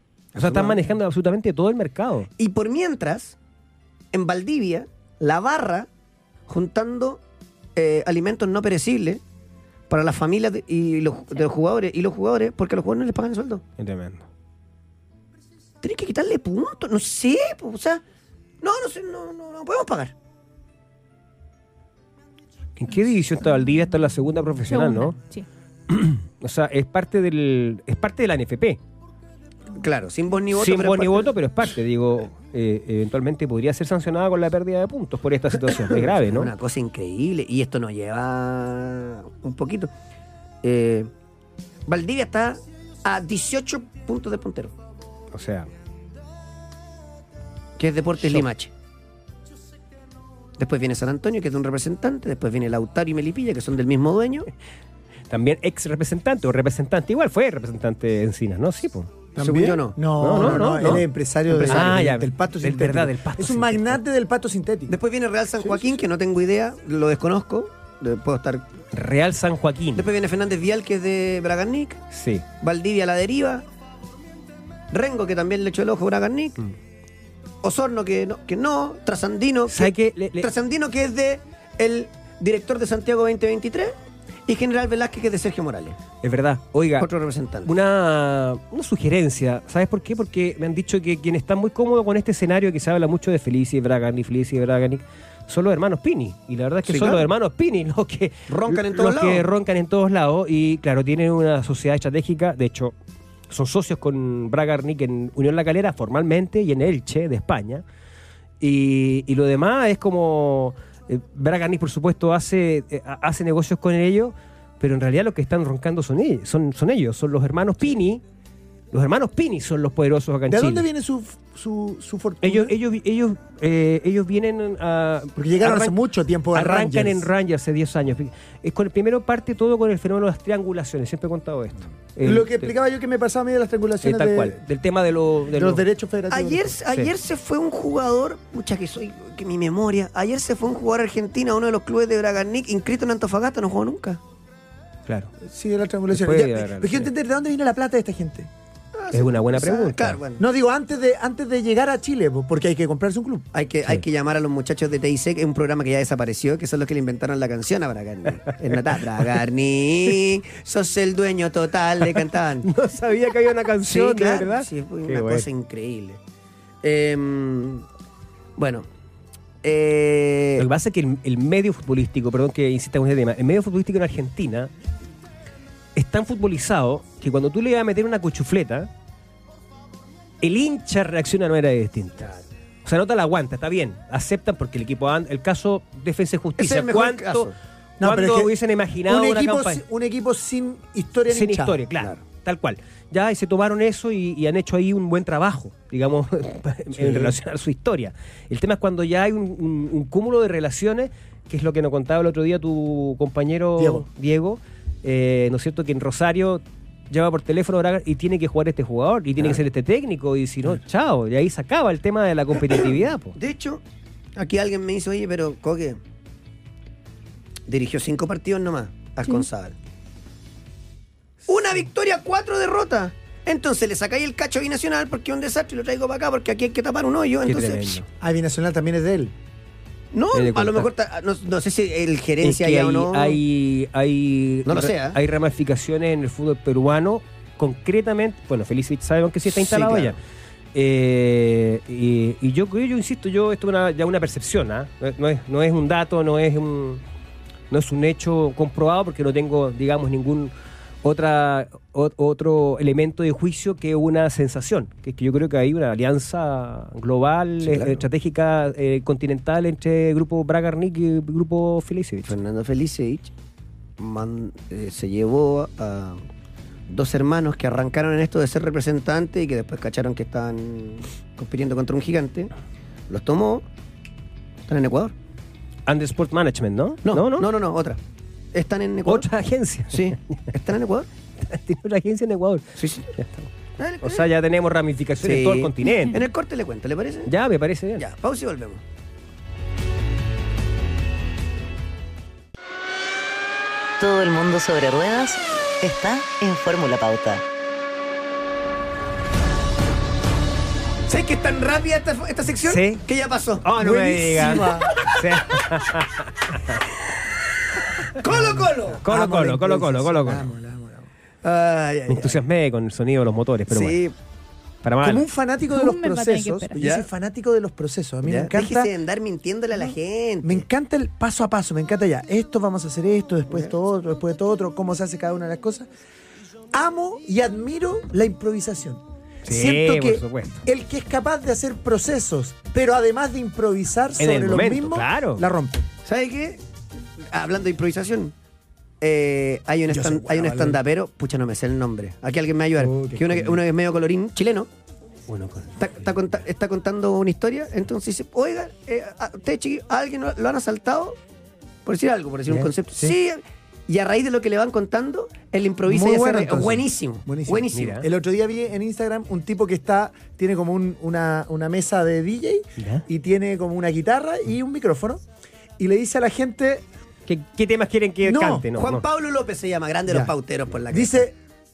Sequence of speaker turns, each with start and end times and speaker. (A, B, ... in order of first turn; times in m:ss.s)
0:00.4-0:00.9 A
0:00.4-0:02.3 B
0:02.4-0:03.4 A
0:04.1-0:05.9 A
0:06.5-0:07.2 A
0:07.8-0:09.2 A
0:09.9-0:13.6 A
0:13.8-0:14.2 B
0:15.8-0:18.0 A
0:18.6-0:20.1 A
0:22.8-0:25.2 B
0:24.7-0:25.5 C
0:25.9-0:28.8 B
0:29.7-0:31.3 A
0:30.5-0:36.5 B
0:35.7-0:39.9 A
0:40.6-0:41.1 A
0:41.9-0:44.7 A
0:45.3-0:45.7 B
0:47.8-0:48.7 A
0:50.6-0:54.5 A
0:55.3-0:59.2 B
0:59.4-1:05.0 D
0:59.4-1:02.1 A
1:00.2-1:01.0 B
1:01.7-1:04.0 B
1:04.9-1:08.7 A
1:05.6-1:05.9 D
1:08.9-1:10.1 B
1:10.0-1:12.0 A
1:12.1-1:12.4 B
1:12.6-1:13.6 A
1:14.9-1:16.6 A
1:17.6-1:24.0 A
1:19.7-1:20.5 B
1:24.5-1:26.0 A
1:26.2-1:27.1 B
1:27.0-1:27.7 A
1:27.6-1:42.9 B
1:36.9-1:37.3 A
1:38.5-1:39.5 A
1:43.5-1:47.8 B
1:48.6-1:58.2 B
1:58.9-2:00.9 B
2:00.5-2:02.8 D
2:02.4-2:06.0 B
2:05.4-2:07.3 D
2:06.5-2:12.7 B
2:12.2-2:14.6 D
2:14.0-2:15.9 B
2:15.5-2:16.8 D
2:16.3-2:24.2 A
2:25.4-2:28.5 D
2:26.1-2:27.1 B
2:28.9-2:30.4 A
2:29.1-2:30.2 B
2:30.4-2:33.5 D
2:33.5-2:42.7 A
2:42.1-2:45.5 B
2:43.8-2:46.2 A
2:46.8-2:47.8 A
2:48.6-2:48.9 A
2:49.6-2:50.7 A
2:50.6-2:54.7 B
2:56.0-2:58.9 B
3:00.4-3:02.3 B
3:02.8-3:09.8 B
3:06.6-3:07.6 A
3:08.0-3:08.5 D
3:09.1-3:11.8 D
3:11.3-3:33.4 B
3:23.8-3:24.0 D
3:33.4-3:33.8 A
3:34.4-3:36.0 A
3:37.7-3:39.8 A
3:41.5-3:48.0 A
3:47.4-3:48.1 B
3:48.2-3:49.3 D
3:50.1-3:53.4 A
3:50.3-3:50.9 B
3:52.4-4:00.2 B
3:54.7-3:55.2 A
3:59.5-4:00.2 A
4:00.8-4:07.0 B
4:07.7-4:22.4 B
4:17.6-4:18.0 A
4:22.3-4:23.3 A
4:24.0-4:26.2 A
4:26.9-4:32.5 A
4:33.1-4:33.6 A
4:34.7-4:35.1 A
4:35.9-4:37.5 B
4:37.0-4:38.0 A
4:38.5-4:39.3 A
4:39.1-4:40.4 B
4:39.9-4:41.1 A
4:41.4-4:43.5 B
4:42.8-4:43.1 A
4:43.8-4:44.2 A
4:44.0-4:46.2 B
4:45.2-4:47.3 A
4:47.3-4:48.0 B
4:48.0-4:48.8 A
4:54.0-4:57.4 E
5:01.1-5:03.7 A
5:02.6-5:03.0 B
5:03.6-5:06.8 B
5:03.8-5:05.1 D
5:04.4-5:05.2 A
5:08.2-5:09.0 A
5:08.2-5:11.1 D
5:09.0-5:10.5 B
5:11.4-5:12.4 A
5:12.1-5:14.0 B
5:13.7-5:14.2 A
5:14.8-5:15.2 B
5:15.0-5:18.9 D
5:15.7-5:16.8 C
5:16.8-5:17.1 A
5:18.2-5:20.6 A
5:20.4-5:25.9 D
5:26.7-5:35.9 D
5:29.4-5:30.6 B
5:34.2-5:35.5 B
5:36.0-5:36.6 A
5:37.2-5:38.3 A
5:39.0-5:44.7 A
5:39.9-5:40.8 D
5:42.8-5:43.6 D
5:45.3-5:46.1 B
5:45.8-5:51.2 A
5:51.8-5:57.9 A
5:52.5-5:53.1 B
5:55.8-6:05.2 D
5:57.7-5:58.1 B
6:02.8-6:03.0 B
6:05.8-6:06.8 D
6:07.3-6:09.0 B
6:08.2-6:08.7 D
6:08.8-6:11.3 A
6:10.1-6:10.3 D
6:10.9-6:11.4 D